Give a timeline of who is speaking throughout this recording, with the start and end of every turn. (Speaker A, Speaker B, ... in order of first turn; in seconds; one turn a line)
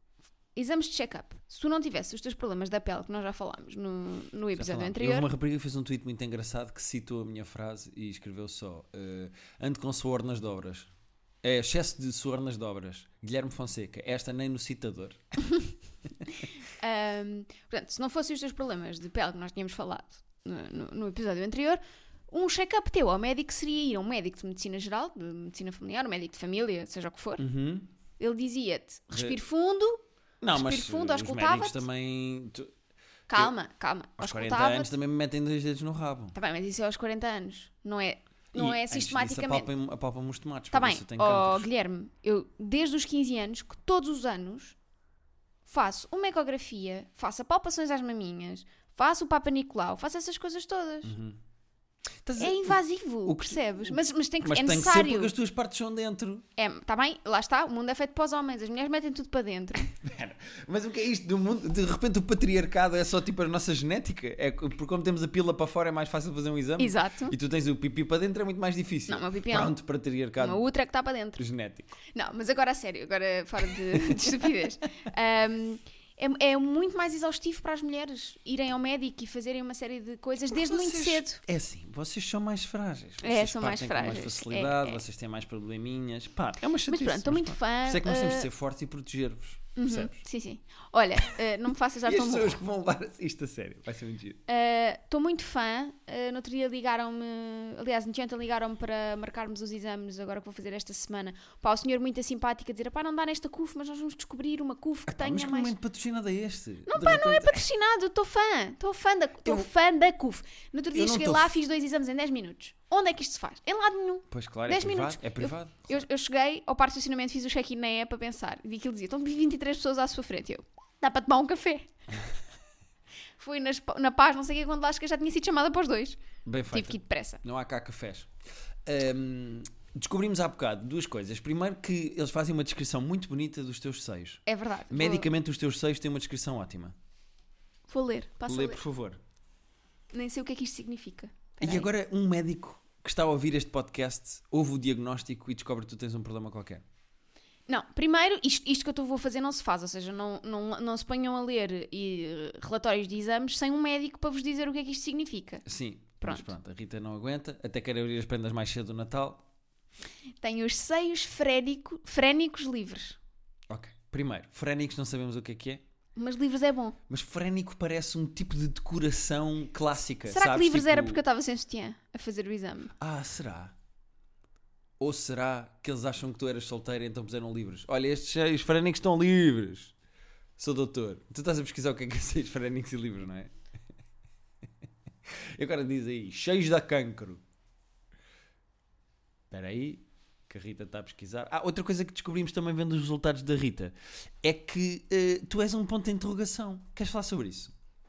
Speaker A: 0.6-5.3
Speaker B: 4.5-10.9
Speaker B: 11.4-15.2
Speaker A: 16.7-27.4
Speaker B: 27.4-27.9
Speaker A: 28.2-31.9
Speaker B: 29.1-29.4
Speaker B: 30.4-32.7
Speaker A: 33.3-34.9
Speaker B: 34.2-36.4
Speaker A: 36.4-39.7
Speaker B: 38.5-41.7
Speaker A: 40.7-44.8
Speaker A: 45.7-51.1
Speaker B: 51.0-51.4
Speaker B: 52.2-56.5
Speaker A: 52.4-55.3
Speaker A: 56.6-60.0
Speaker B: 60.0-70.6
Speaker A: 66.8-67.4
Speaker A: 69.1-69.7
Speaker A: 70.4-71.4
Speaker B: 71.4-72.0
Speaker A: 72.1-81.4
Speaker B: 73.9-74.2
Speaker B: 80.5-90.2
Speaker A: 83.2-85.0
Speaker A: 86.8-88.5
Speaker A: 89.8-92.6
Speaker B: 92.0-94.4
Speaker A: 94.5-105.8
Speaker B: 105.1-107.6
Speaker A: 106.9-121.9
Speaker B: 110.9-111.5
Speaker B: 114.3-116.0
Speaker A: 123.4-127.4
Speaker B: 126.5-128.3
Speaker B: 128.9-136.9
Speaker A: 134.5-135.3
Speaker A: 137.9-138.8
Speaker B: 138.5-139.2
Speaker A: 140.1-141.9
Speaker B: 141.6-146.8
Speaker A: 147.7-155.7
Speaker B: 155.7-159.4
Speaker A: 156.2-156.5
Speaker A: 160.4-163.2
Speaker B: 163.7-165.8
Speaker A: 166.2-167.0
Speaker B: 167.1-171.2
Speaker A: 170.3-172.9
Speaker B: 173.0-173.8
Speaker B: 175.0-179.9
Speaker B: 180.6-183.5
Speaker B: 185.3-187.4
Speaker B: 189.5-197.7